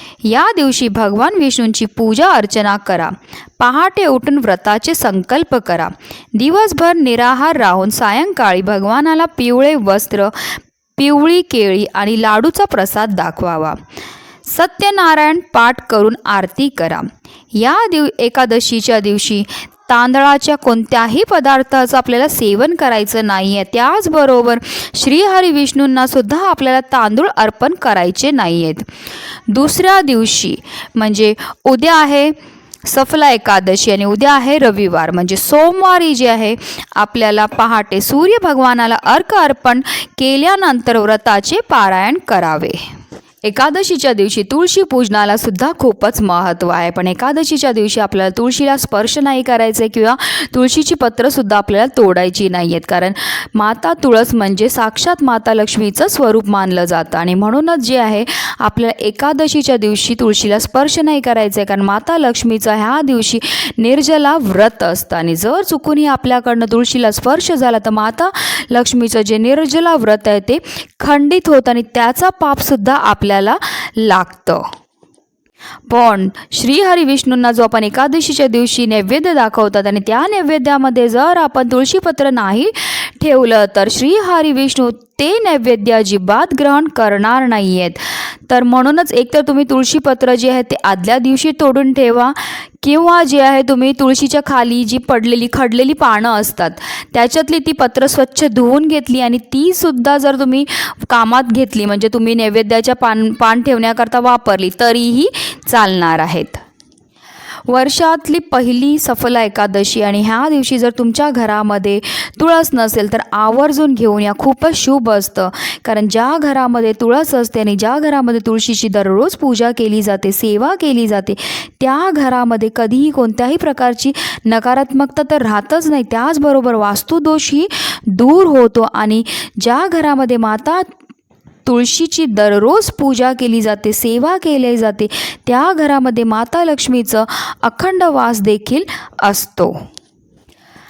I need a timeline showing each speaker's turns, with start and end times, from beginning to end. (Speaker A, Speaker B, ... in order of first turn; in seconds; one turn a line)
Speaker A: 0.2-13.8
Speaker A: 14.4-28.9
Speaker A: 29.5-42.8
Speaker A: 43.4-74.7
Speaker A: 75.9-106.6
Speaker A: 107.7-130.9
Speaker A: 131.7-139.8